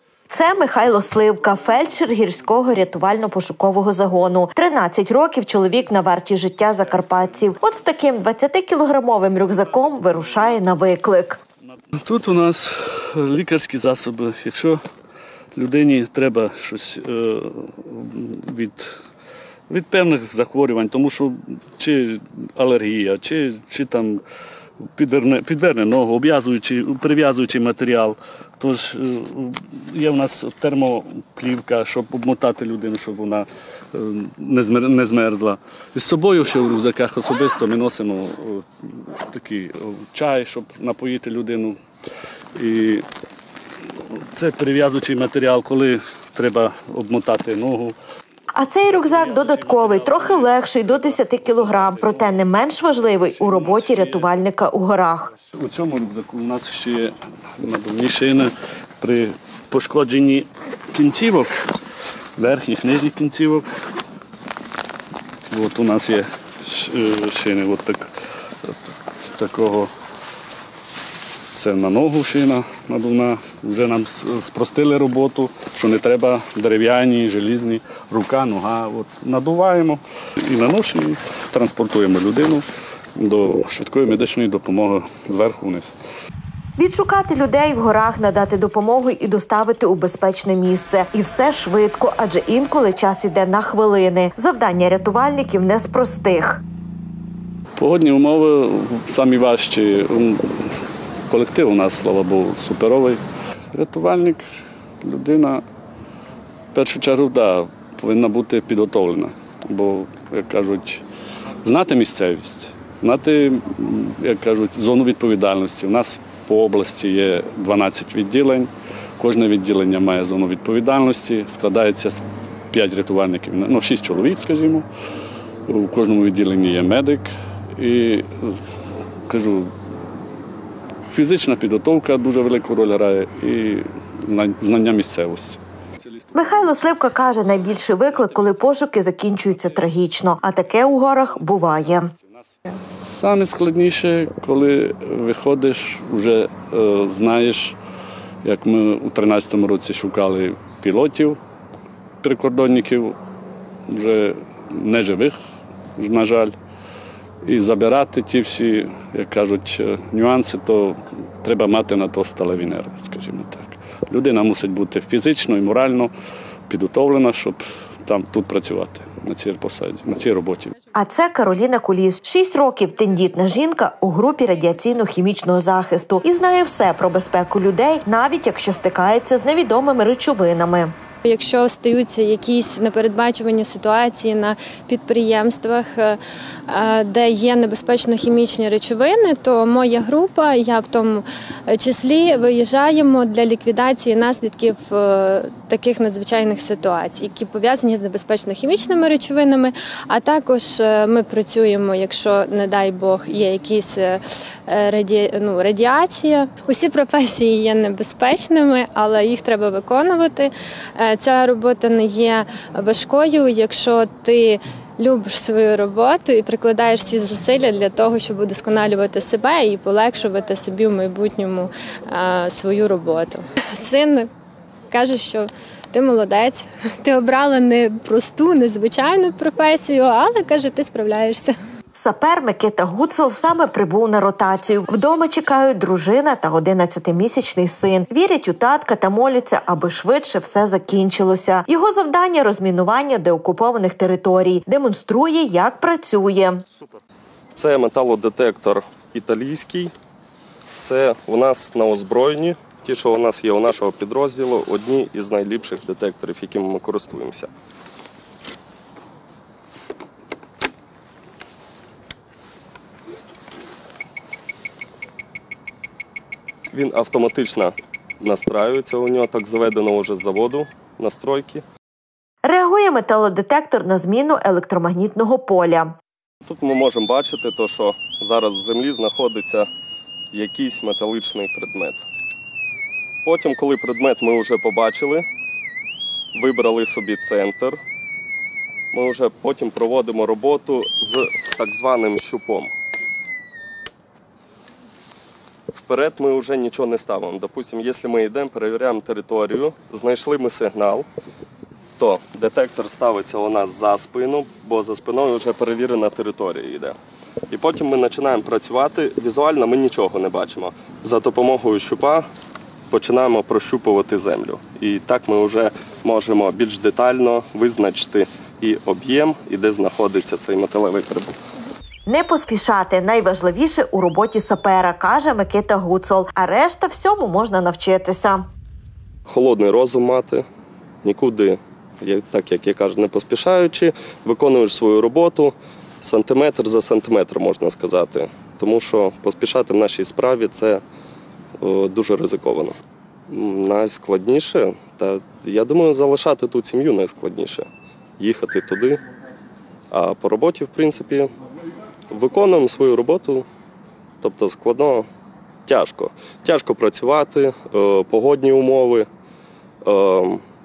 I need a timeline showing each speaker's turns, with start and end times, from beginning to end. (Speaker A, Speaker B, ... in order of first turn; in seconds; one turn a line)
Speaker A: 0.3-11.4
Speaker B: 12.0-14.8
Speaker B: 15.6-19.0
Speaker B: 19.7-24.2
Speaker B: 25.0-41.8
Speaker B: 42.5-43.0
Speaker B: 44.3-48.0
Speaker A: 48.5-55.3
Speaker B: 48.9-52.4
Speaker B: 53.2-54.4
Speaker B: 55.5-61.6
Speaker B: 62.4-63.7
Speaker B: 65.5-68.1
Speaker B: 69.3-69.9
Speaker B: 71.5-82.6
Speaker B: 83.2-85.9
Speaker A: 86.8-96.6
Speaker B: 97.8-100.7
Speaker B: 101.3-103.2
Speaker B: 103.7-104.4
Speaker B: 105.0-105.6
Speaker B: 106.7-111.0
Speaker B: 111.6-124.9
Speaker B: 125.7-128.6
Speaker B: 129.3-129.7
Speaker B: 131.1-135.6
Speaker A: 136.3-142.1
Speaker B: 143.1-147.8
Speaker B: 148.4-151.4
Speaker B: 152.2-153.2
Speaker B: 153.9-155.4
Speaker B: 156.0-156.6
Speaker B: 157.4-166.1
Speaker B: 166.7-170.7
Speaker A: 170.9-180.9
Speaker C: 181.2-224.3
Speaker C: 224.9-231.6
Speaker A: 231.9-246.6
Speaker D: 247.6-249.9
Speaker D: 250.8-257.5
Speaker D: 266.7-271.6
Speaker A: 272.4-275.9
Speaker D: 276.4-279.7
Speaker D: 280.3-282.0
Speaker D: 283.2-285.3
Speaker D: 286.3-287.8
Speaker D: 288.9-292.7
Speaker D: 295.9-301.1
Speaker D: 302.0-306.9
Speaker D: 307.5-312.2
Speaker D: 312.9-321.3
Speaker A: 322.1-328.5
Speaker D: 329.3-330.4
Speaker D: 331.0-340.8
Speaker D: 341.6-342.8
Speaker D: 343.3-347.7
Speaker D: 348.2-349.0
Speaker D: 349.9-351.3
Speaker D: 352.1-353.5
Speaker D: 354.2-355.1
Speaker D: 355.7-359.1
Speaker D: 359.8-360.4